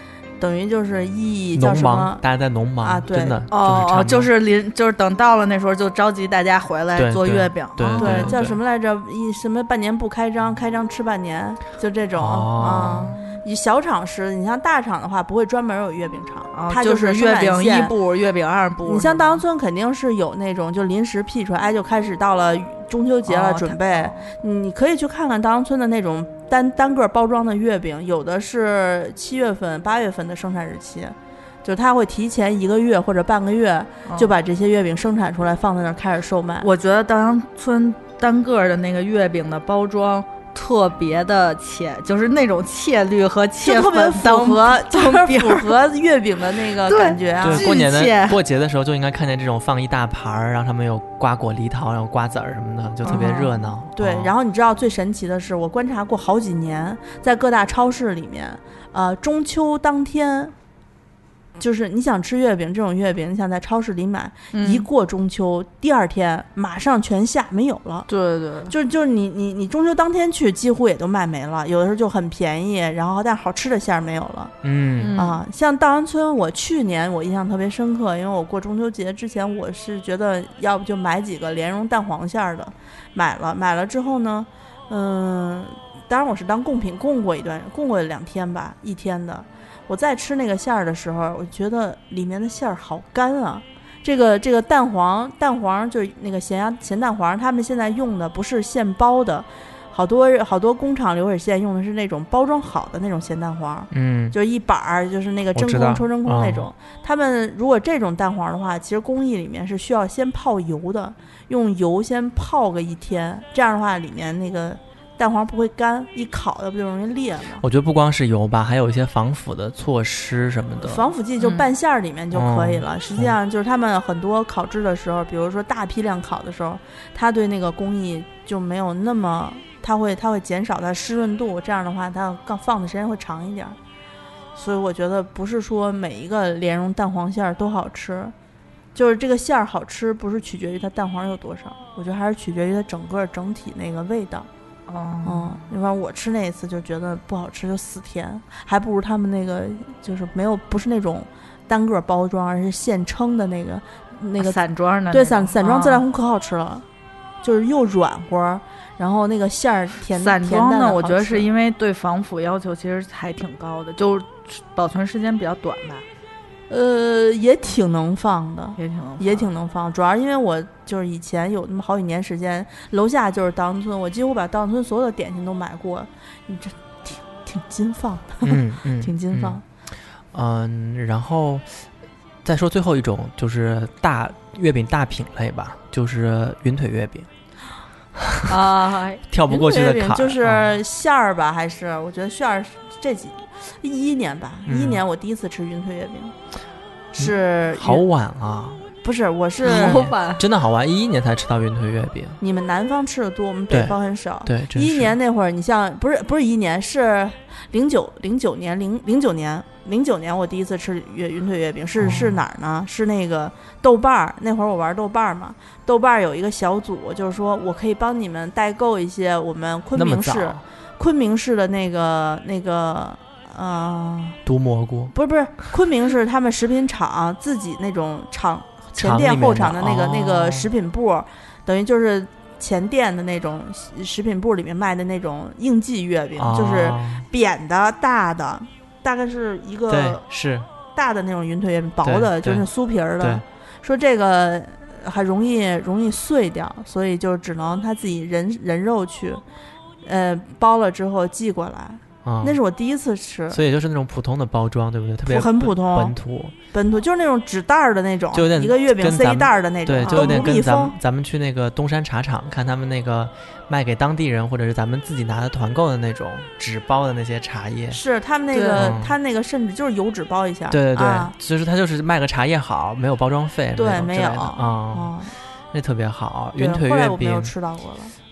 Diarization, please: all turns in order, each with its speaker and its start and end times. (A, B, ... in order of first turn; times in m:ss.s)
0:00.4-0:02.2 A
0:01.5-0:04.3 B
0:02.8-0:03.4 A
0:03.5-0:08.4 C
0:07.0-0:08.6 B
0:08.0-0:17.9 A
0:12.2-0:13.1 B
0:12.7-0:13.4 C
0:16.6-0:19.4 C
0:18.8-0:36.7 A
0:23.3-0:24.3 C
0:34.1-0:34.3 C
0:36.6-0:45.7 C
0:43.6-0:47.7 A
0:46.9-0:48.4 C
0:47.4-0:54.3 B
0:53.0-0:53.5 C
0:53.1-1:00.5 A
1:01.6-1:08.1 A
1:04.5-1:04.9 C
1:08.1-1:08.7 C
1:08.7-1:14.5 A
1:14.6-1:15.2 B
1:15.0-1:15.4 C
1:15.2-1:57.6 A
1:43.9-1:44.4 B
1:45.5-1:46.7 B
1:57.6-2:01.1 B
2:00.8-2:13.8 A
2:01.4-2:01.7 C
2:02.3-2:03.3 B
2:14.6-2:18.3 A
2:19.0-2:24.5 A
2:24.9-2:25.6 C
2:25.2-2:34.6 A
2:34.4-2:36.0 C
2:35.1-2:36.8 A
2:37.4-2:41.5 A
2:40.1-2:46.0 C
2:46.7-2:59.6 A
2:48.8-2:49.5 C
2:58.4-2:59.6 B
3:00.3-3:01.8 B
3:02.4-3:07.3 B
3:08.2-3:08.6 B
3:08.5-3:09.2 C
3:09.3-3:10.7 B
3:09.5-3:16.4 A
3:14.7-3:15.0 B
3:17.1-3:18.0 A
3:17.2-3:18.8 B
3:19.0-3:20.1 A
3:19.6-3:20.4 C
3:19.6-3:22.4 B
3:22.4-3:44.4 A
3:23.7-3:25.2 B
3:32.0-3:32.4 B
3:39.9-3:40.6 B
3:44.4-3:45.1 B
3:45.1-4:00.2 A
3:49.0-3:50.7 B
3:56.4-3:57.3 B
3:59.9-4:00.7 B
4:00.9-4:09.4 A
4:02.0-4:02.7 B
4:03.2-4:03.4 B
4:10.0-4:13.6 A
4:12.2-4:12.6 B
4:13.5-4:16.6 B
4:15.3-4:16.2 A
4:16.7-4:21.0 A
4:18.3-4:28.0 B
4:20.0-4:20.4 C
4:27.9-4:31.3 A
4:28.5-4:28.9 C
4:28.8-4:29.2 B
4:30.7-4:35.1 B
4:33.8-4:35.3 A
4:35.7-4:37.5 B
4:36.6-4:38.1 A